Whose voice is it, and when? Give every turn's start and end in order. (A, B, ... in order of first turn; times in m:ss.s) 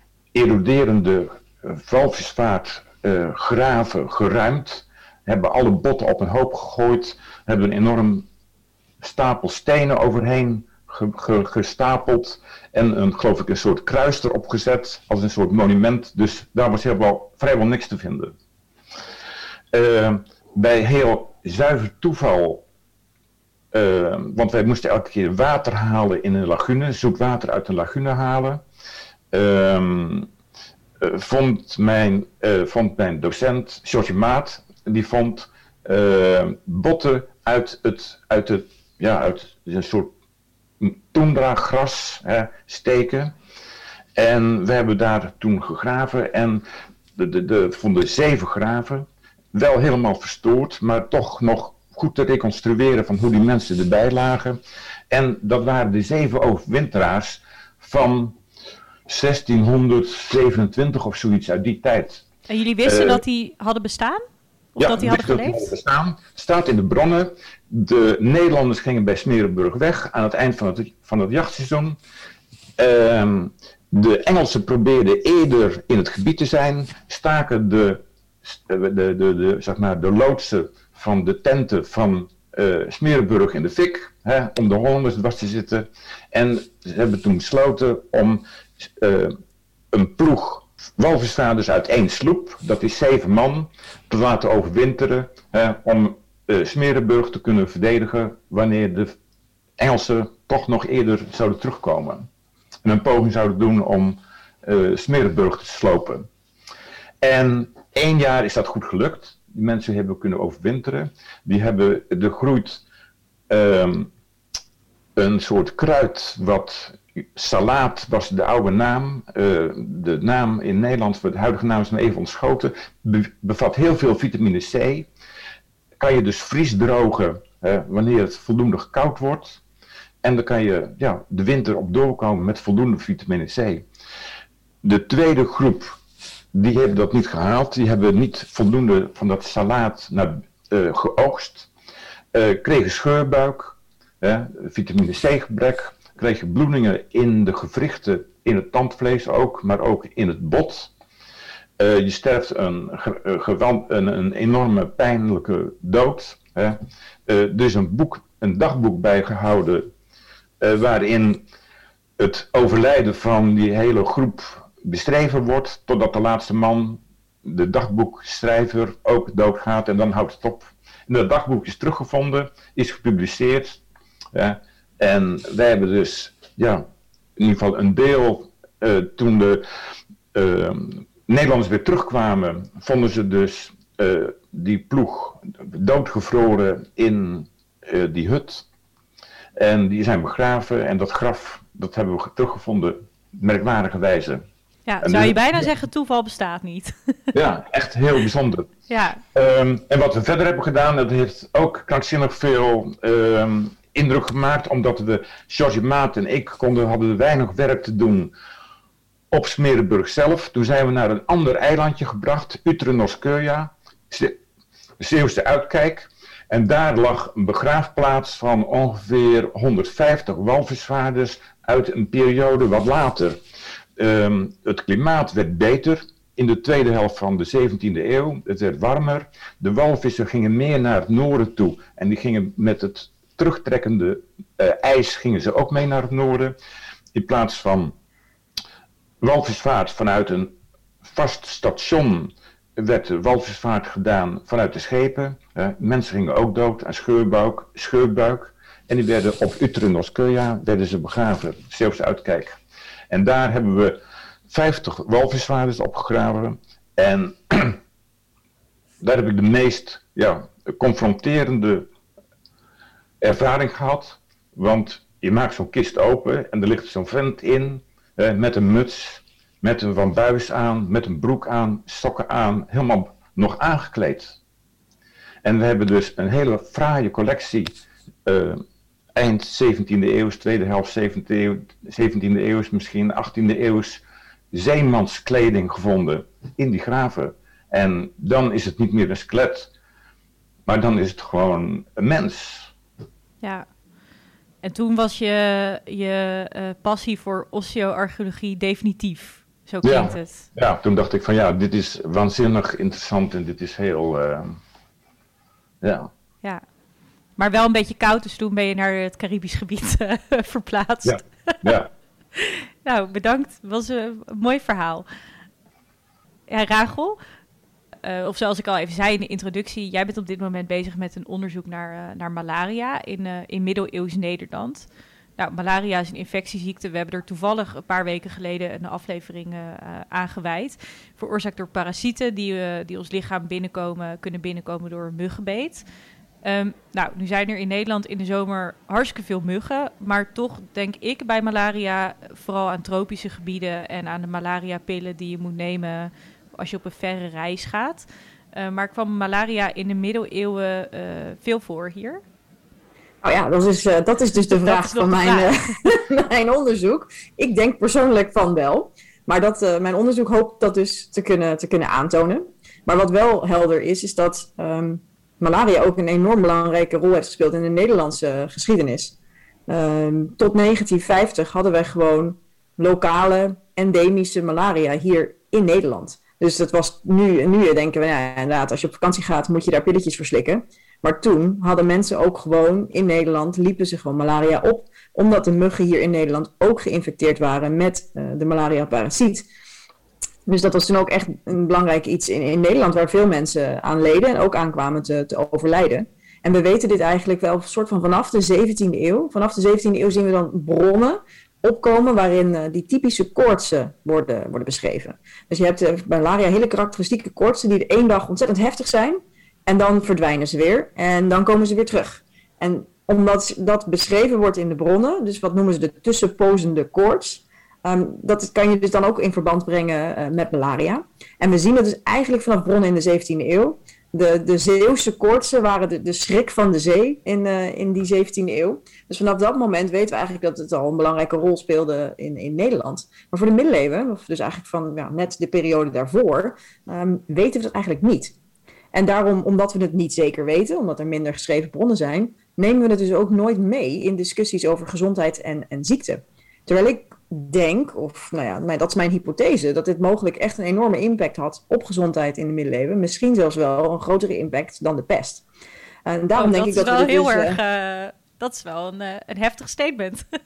0:00.3-0:08.2 A
0:09.0-0:18.3 A
0:19.7-0:22.6 A
0:23.7-0:28.6 A
0:29.3-0:30.3 A
0:31.0-0:40.1 A
0:40.8-0:43.3 A
0:44.2-0:46.6 A
0:47.2-0:54.6 A
0:55.1-0:58.3 A
0:59.1-1:02.2 A
1:02.5-1:04.2 B
1:02.8-1:03.2 A
1:04.8-1:05.7 B
1:04.8-1:12.0 A
1:12.8-1:29.3 A
1:29.9-1:39.1 A
1:39.8-1:42.3 A
1:42.8-1:46.3 A
1:47.2-1:52.8 A
1:53.5-1:54.1 A
1:55.2-2:05.1 A
2:06.0-2:09.6 A
2:10.2-2:13.8 A
2:14.8-2:16.0 A
2:16.5-2:21.7 A
2:22.3-2:30.9 A
2:31.8-2:39.9 A
2:40.6-2:41.4 A
2:42.2-2:53.8 A
2:54.3-2:56.8 A
2:57.4-2:59.6 A
3:00.3-3:08.6 A
3:09.6-3:14.4 A
3:14.9-3:17.3 B
3:15.0-3:15.7 A
3:17.3-3:18.7 A
3:18.9-3:19.2 B
3:19.3-3:28.3 A
3:29.3-3:34.3 A
3:35.0-3:43.4 A
3:44.0-3:56.6 A
3:57.1-3:57.9 A
3:59.2-4:00.5 A
4:01.0-4:12.6 A
4:13.1-4:14.0 A
4:14.5-4:17.8 A
4:19.0-4:21.9 A
4:23.2-4:34.4 A
4:35.4-4:37.7 A
4:38.2-4:38.6 A
4:39.1-4:49.7 A
4:50.7-4:52.7 A
4:54.6-5:00.5 B
4:59.8-5:04.6 A
5:05.8-5:06.1 A
5:07.4-5:11.7 B
5:11.0-5:11.9 A
5:12.4-5:15.0 B
5:16.5-5:17.2 B
5:18.0-5:35.8 B
5:36.4-5:52.2 B
5:53.2-6:09.1 C
5:54.4-5:55.7 B
6:09.7-6:29.5 C
6:30.4-7:18.3 C
7:18.9-7:35.4 C
7:36.0-7:37.6 C
7:36.3-7:40.2 B